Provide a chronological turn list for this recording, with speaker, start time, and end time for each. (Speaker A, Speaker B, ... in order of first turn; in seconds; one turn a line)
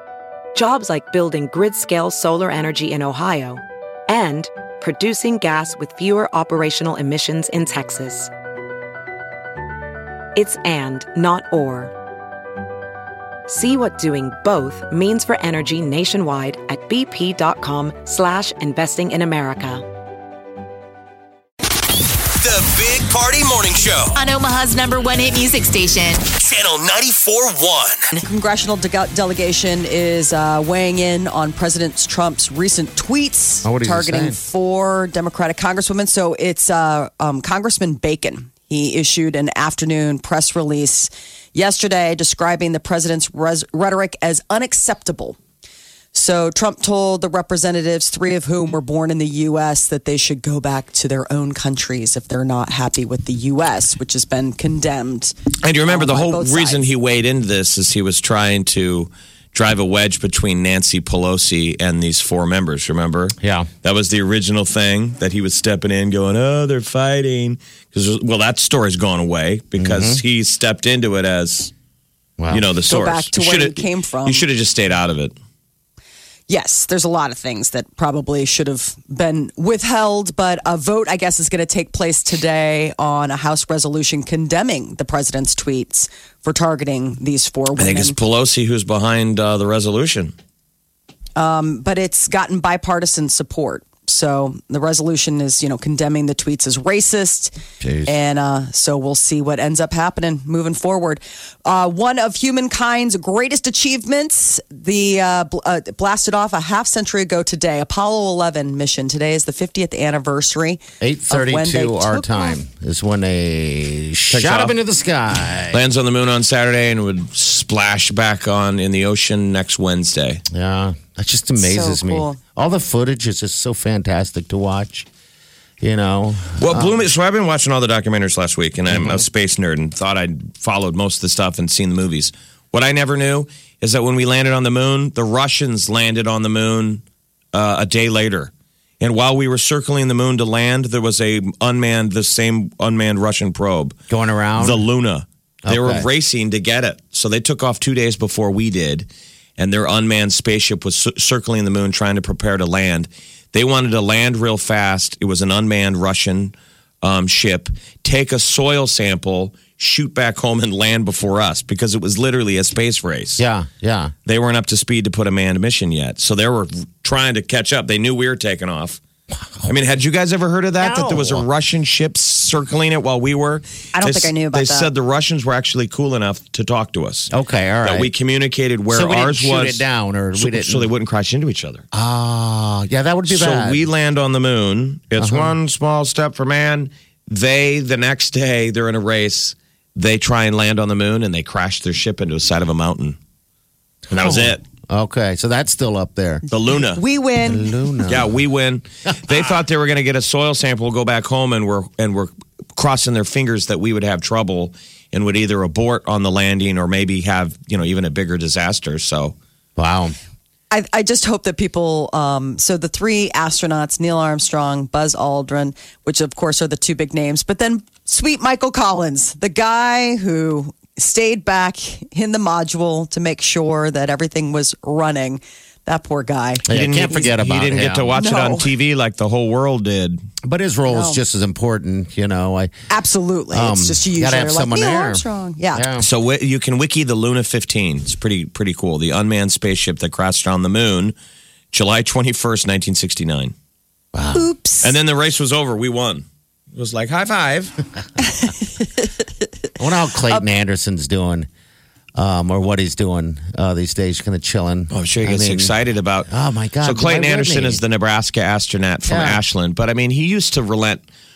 Speaker A: 0.5-8.3
Speaker A: 10.3-11.9
Speaker A: 13.5-19.8
Speaker B: 22.4-24.1
Speaker C: 24.1-26.2
Speaker B: 26.3-28.1
Speaker D: 28.2-45.4
Speaker E: 33.6-34.4
Speaker D: 46.1-55.4
Speaker F: 55.6-71.7
Speaker D: 55.9-56.9
Speaker E: 63.4-63.7
Speaker E: 69.8-70.2
Speaker E: 72.4-72.7
Speaker F: 72.5-75.3
Speaker D: 72.8-74.5
Speaker D: 76.5-88.2
Speaker F: 87.8-90.3
Speaker D: 91.3-97.5
Speaker E: 97.8-98.1
Speaker D: 98.1-112.6
Speaker E: 111.0-115.8
Speaker F: 114.3-114.8
Speaker F: 115.7-120.4
Speaker E: 120.5-125.1
Speaker D: 121.6-122.4
Speaker E: 125.8-127.0
Speaker F: 126.6-143.9
Speaker E: 128.9-129.2
Speaker E: 144.1-144.8
Speaker F: 144.6-163.4
Speaker E: 145.6-146.1
Speaker E: 163.4-164.1
Speaker F: 164.2-169.0
Speaker F: 169.6-177.3
Speaker E: 170.8-171.4
Speaker D: 173.9-174.9
Speaker E: 177.3-178.1
Speaker F: 177.8-179.8
Speaker E: 178.9-180.9
Speaker F: 180.4-181.8
Speaker E: 181.9-183.8
Speaker F: 183.3-193.2
Speaker E: 185.2-185.6
Speaker E: 194.1-196.4
Speaker F: 194.1-194.6
Speaker F: 196.5-197.0
Speaker D: 196.9-197.7
Speaker E: 197.4-198.3
Speaker F: 198.1-209.3
Speaker E: 209.8-210.1
Speaker D: 210.7-227.3
Speaker E: 226.7-228.1
Speaker F: 226.7-230.2
Speaker D: 228.1-228.7
Speaker E: 230.4-232.7
Speaker D: 230.9-231.2
Speaker D: 232.9-235.9
Speaker E: 233.5-236.1
Speaker F: 236.0-241.1
Speaker F: 241.7-243.5
Speaker E: 244.1-244.5
Speaker D: 244.3-244.9
Speaker F: 244.8-247.7
Speaker E: 249.8-251.5
Speaker E: 252.2-255.7
Speaker F: 254.9-256.3
Speaker E: 256.3-257.8
Speaker F: 256.8-261.0
Speaker E: 259.1-259.4